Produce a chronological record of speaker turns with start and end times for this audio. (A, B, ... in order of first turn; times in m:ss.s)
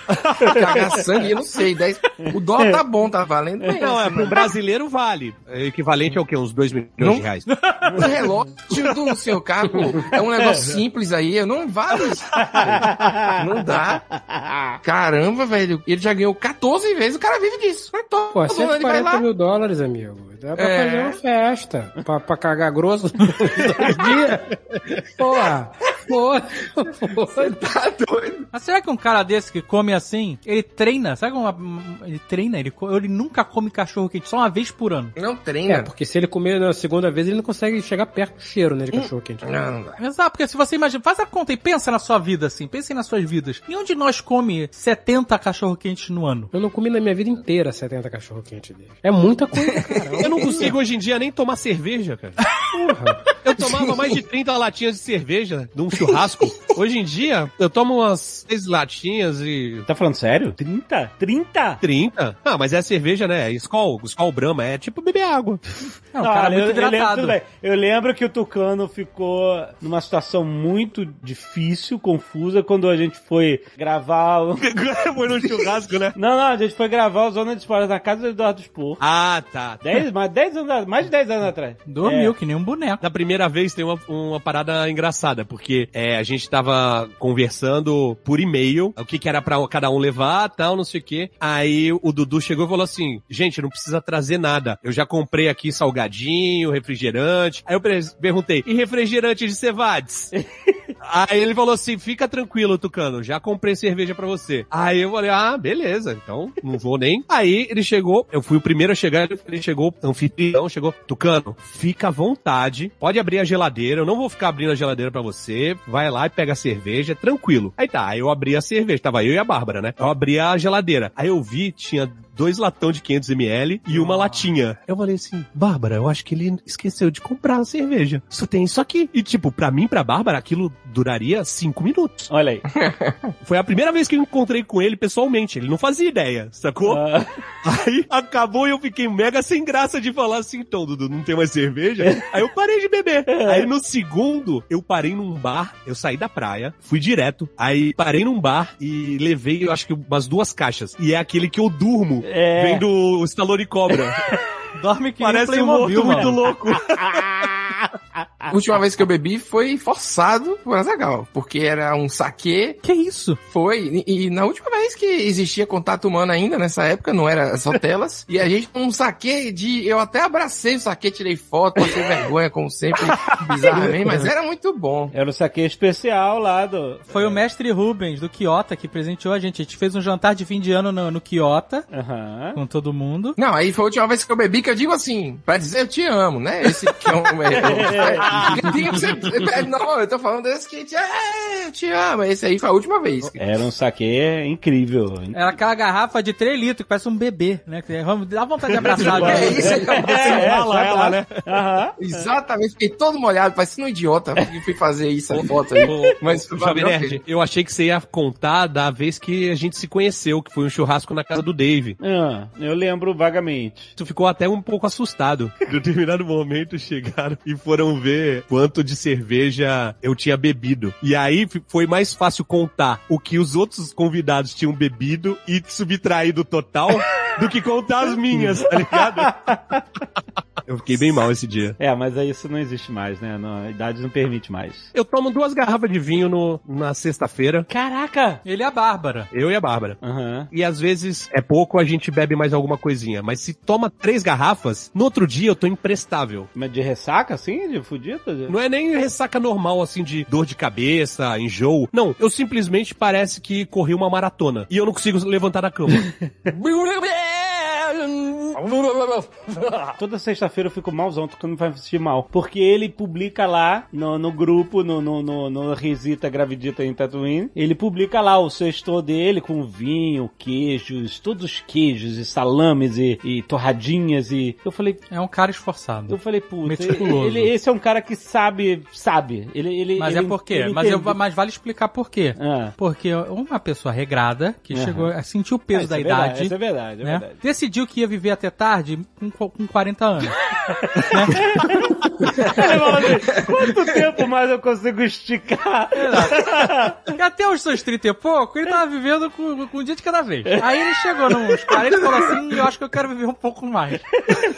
0:00.4-0:01.0 A
0:00.4-0:04.5 B
0:02.2-0:02.8 A
0:03.8-0:07.5 C
0:07.0-0:07.3 B
0:07.9-0:08.1 A
0:07.9-0:14.0 B
0:09.7-0:10.1 D
0:12.4-0:13.4 A
0:14.1-0:14.8 A
0:14.8-0:19.3 B
0:18.3-0:24.6 D
0:20.6-0:21.2 B
0:25.2-0:27.6 D
0:27.4-0:28.5 B
0:28.5-0:35.2 E
0:35.2-0:35.9 B
0:35.7-0:39.5 D
0:38.9-0:40.0 B
0:40.0-0:46.5 E
0:46.5-0:50.7 D
0:49.7-0:50.7 B
0:50.2-0:52.4 C
0:52.7-0:53.2 D
0:53.4-0:59.9 C
0:53.7-0:54.1 B
0:56.1-0:56.7 B
0:59.9-1:01.8 A
1:01.8-1:05.6 C
1:06.1-1:07.4 E
1:06.2-1:14.7 A
1:14.6-1:16.2 C
1:16.2-1:19.0 A
1:19.0-1:19.9 C
1:19.8-1:22.4 A
1:21.9-1:23.0 E
1:23.0-1:40.3 C
1:40.3-1:40.9 A
1:41.0-2:12.3 C
2:03.9-2:04.5 A
2:12.3-2:12.7 A
2:12.7-2:13.3 B
2:13.4-2:17.0 C
2:16.9-2:17.3 A
2:17.6-2:34.2 C
2:22.0-2:22.3 A
2:23.3-2:23.7 A
2:32.2-2:32.9 A
2:34.8-2:36.4 E
2:35.2-2:37.0 C
2:36.0-2:38.5 A
2:38.5-2:42.8 B
2:42.8-2:43.4 E
2:43.5-2:55.1 B
2:53.6-2:54.2 A
2:53.8-2:54.3 D
2:55.1-2:57.4 A
2:57.1-3:01.9 E
3:01.9-3:02.6 A
3:02.6-3:03.4 E
3:03.4-3:13.4 B
3:07.5-3:09.0 A
3:13.4-3:15.4 A
3:15.3-3:19.5 E
3:18.8-3:22.2 A
3:18.9-3:20.5 B
3:18.9-3:21.4 C
3:22.0-3:27.2 B
3:25.3-3:32.0 C
3:25.7-3:26.2 A
3:32.0-3:34.0 A
3:34.0-3:49.6 C
3:48.3-3:49.8 A
3:50.6-3:51.8 C
3:51.8-3:54.9 A
3:54.9-3:57.7 C
3:57.7-3:58.4 A
3:58.4-3:59.3 E
3:59.3-4:00.0 C
4:00.0-4:00.5 A
4:00.5-4:06.5 C
4:06.6-4:08.6 A
4:08.5-4:19.8 C
4:20.0-4:35.0 A
4:35.1-4:37.5 E
4:36.1-4:41.2 A
4:40.0-4:50.4 E
4:42.4-4:42.8 A
4:44.7-4:45.1 A
4:45.7-4:47.4 A
4:50.7-4:57.1 A
4:51.1-4:51.7 E
4:55.9-5:04.1 E